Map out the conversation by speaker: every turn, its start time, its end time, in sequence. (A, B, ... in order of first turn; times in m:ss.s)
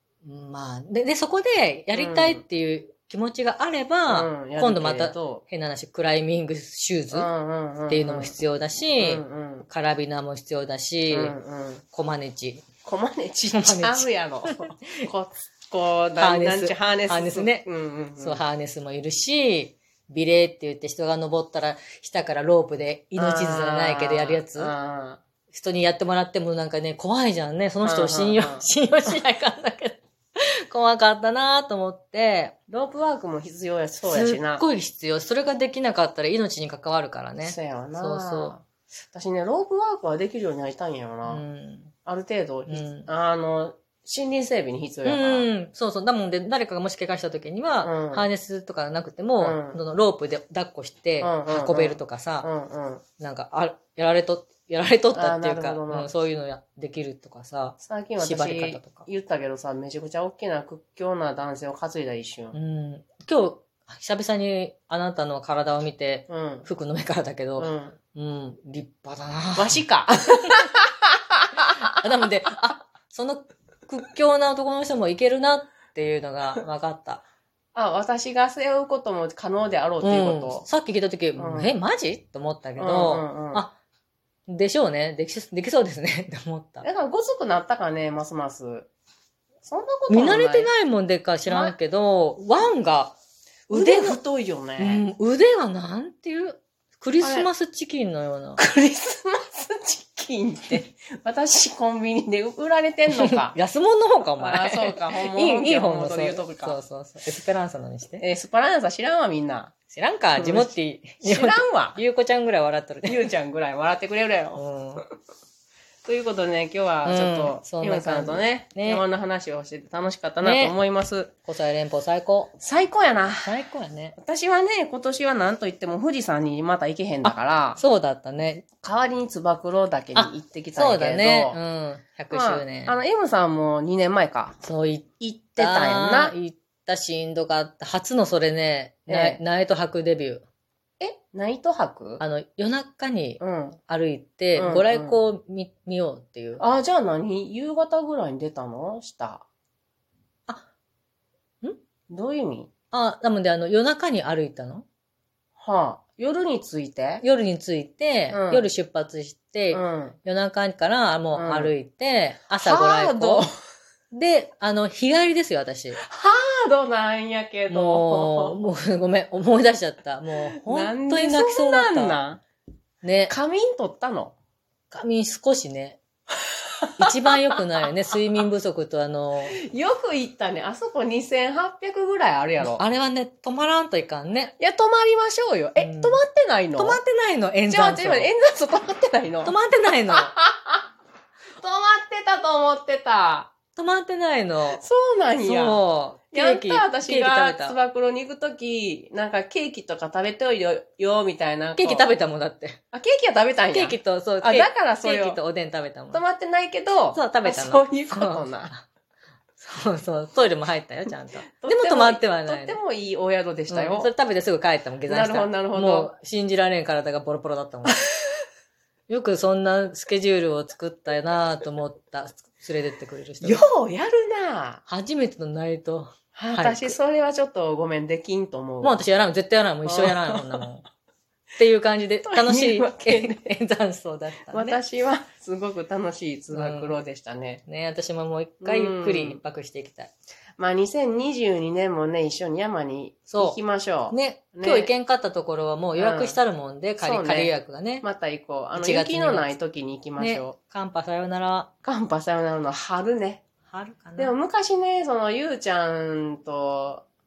0:00.2-0:07.3 A
0:01.9-0:02.4 B
0:04.1-0:05.4 B
0:07.1-0:08.3 B
0:07.9-0:11.3 A
0:09.0-0:09.7 B
0:11.1-0:11.8 B
0:11.9-0:12.6 A
0:12.8-0:18.4 B
0:13.5-0:15.1 A
0:16.2-0:17.7 A
0:18.2-0:24.7 A
0:23.2-0:25.2 B
0:25.5-0:32.5 A
0:27.8-0:28.7 B
0:32.7-0:34.6 B
0:34.1-0:38.6 A
0:37.4-0:41.4 B
0:41.2-0:41.9 A
0:42.0-0:45.5 B
0:42.7-0:43.1 A
0:45.0-0:52.5 A
0:47.8-0:48.3 B
0:49.4-0:49.8 B
0:51.2-0:53.0 B
0:53.2-0:59.1 A
0:55.1-0:56.1 B
0:57.8-1:02.6 B
1:02.5-1:09.8 A
1:06.3-1:06.7 B
1:07.6-1:08.0 B
1:09.6-1:10.8 B
1:11.9-1:17.2 A
1:17.8-1:20.6 B
1:20.0-1:23.8 A
1:21.4-1:21.7 B
1:22.8-1:23.6 B
1:24.5-1:26.9 A
1:26.8-1:28.9 B
1:29.6-1:30.7 B
1:30.1-1:33.2 A
1:31.5-1:31.8 B
1:33.7-1:35.0 B
1:33.7-1:34.2 A
1:34.8-1:38.6 A
1:37.2-1:37.5 B
1:38.6-1:43.6 B
1:43.1-1:48.2 A
1:44.4-1:46.8 B
1:48.2-1:49.7 B
1:49.9-1:53.3 A
1:50.4-1:52.0 B
1:53.0-1:54.6 B
1:54.6-1:55.0 A
1:56.0-2:01.3 B
1:57.0-1:59.0 A
2:00.4-2:00.8 A
2:01.5-2:02.5 A
2:02.6-2:03.5 B
2:03.4-2:04.2 A
2:04.2-2:07.8 B
2:07.2-2:08.7 A
2:08.8-2:11.6 B
2:10.1-2:13.0 A
2:12.3-2:14.6 B
2:14.6-2:20.4 A
2:15.2-2:16.4 B
2:19.1-2:19.4 B
2:21.0-2:22.2 B
2:22.2-2:26.6 A
2:23.4-2:23.8 B
2:24.6-2:25.2 B
2:26.6-2:29.4 B
2:32.1-2:32.7 B
2:32.9-2:34.8 A
2:35.6-2:37.2 B
2:37.2-2:43.5 A
2:38.3-2:38.7 B
2:39.7-2:40.2 B
2:41.3-2:41.7 B
2:42.6-2:43.5 B
2:44.1-2:46.0 A
2:45.9-2:48.6 B
2:47.7-2:52.2 A
2:50.6-2:52.4 B
2:53.0-2:53.4 A
2:53.3-2:54.4 B
2:54.9-2:56.0 A
2:57.0-2:57.4 B
2:57.0-2:59.6 A
2:59.5-3:02.8 B
3:02.6-3:04.5 A
3:04.6-3:07.0 B
3:05.8-3:06.2 A
3:06.8-3:08.3 A
3:07.7-3:09.6 B
3:09.4-3:10.3 A
3:10.1-3:10.8 B
3:11.6-3:13.5 B
3:13.7-3:14.8 A
3:14.8-3:22.1 B
3:15.4-3:17.8 A
3:21.8-3:22.8 A
3:22.9-3:25.4 B
3:23.7-3:26.2 A
3:26.1-3:28.7 B
3:27.1-3:28.8 A
3:29.6-3:32.8 A
3:31.6-3:34.1 B
3:33.7-3:38.0 A
3:35.1-3:36.1 B
3:39.1-3:43.6 A
3:43.4-3:44.8 B
3:44.9-3:47.0 A
3:46.4-3:49.0 B
3:48.8-3:50.8 A
3:49.9-3:50.7 B
3:51.6-3:54.8 A
3:52.2-3:53.4 B
3:54.5-3:57.6 B
3:56.5-3:57.0 A
3:57.7-4:00.1 A
3:58.6-3:59.4 B
4:00.6-4:04.9 B
4:03.3-4:03.6 A
4:04.1-4:08.0 A
4:06.0-4:06.4 B
4:07.0-4:10.6 B
4:08.8-4:09.5 A
4:10.2-4:11.7 A
4:11.8-4:13.4 B
4:13.6-4:14.3 A
4:14.2-4:17.0 B